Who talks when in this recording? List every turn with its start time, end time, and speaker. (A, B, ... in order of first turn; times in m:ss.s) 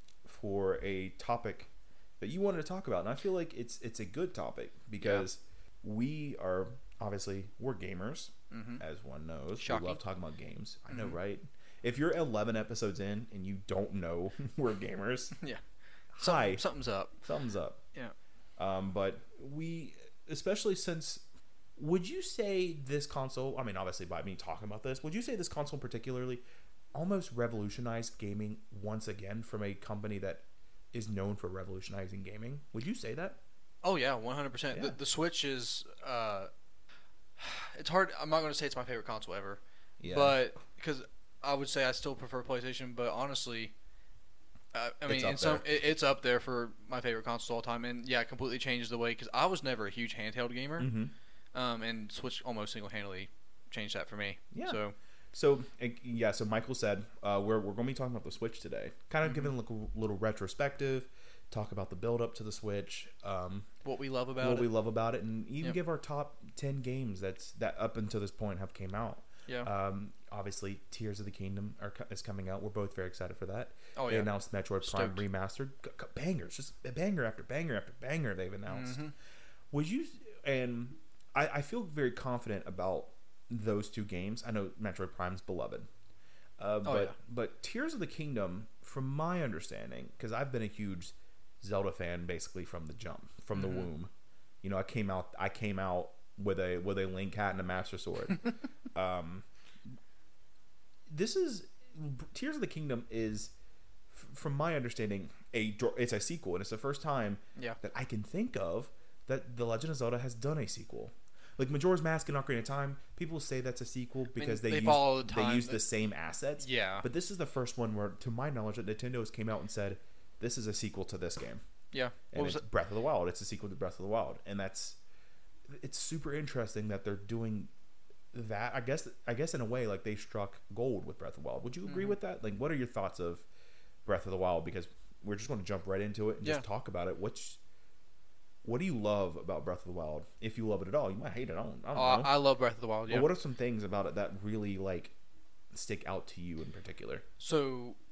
0:00.2-0:15.3 A
0:05.0-0:05.2 B
0:08.5-0:08.8 B
0:09.6-0:10.0 B
0:10.9-0:11.2 B
0:16.1-0:16.6 A
0:16.2-0:17.2 B
0:17.2-0:17.8 A
0:18.6-0:21.2 A
0:21.8-0:26.4 A
0:26.9-0:33.4 A
0:33.8-0:36.5 B
0:37.4-0:43.7 B
0:40.0-0:40.4 A
0:44.7-0:50.9 B
0:45.0-0:45.8 A
0:50.8-0:51.1 A
0:51.5-0:54.9 B
0:54.5-0:54.8 A
0:55.3-1:03.7 A
0:59.2-0:59.5 B
1:03.8-1:04.7 B
1:04.4-1:19.0 A
1:14.0-1:15.2 B
1:18.7-1:19.1 B
1:19.7-1:25.9 A
1:26.6-1:34.1 A
1:26.8-1:27.1 B
1:33.5-1:33.9 B
1:34.6-1:39.4 A
1:41.1-1:43.5 A
1:44.1-2:01.6 A
1:54.3-1:55.8 B
1:56.6-1:57.0 B
2:01.9-2:02.6 B
2:02.3-2:05.0 A
2:05.7-2:07.7 A
2:08.3-2:13.4 A
2:11.8-2:12.2 B
2:14.0-2:17.6 A
2:18.6-2:22.3 A
2:21.9-2:23.3 B
2:23.1-2:25.1 A
2:25.7-2:27.2 A
2:27.4-2:28.0 B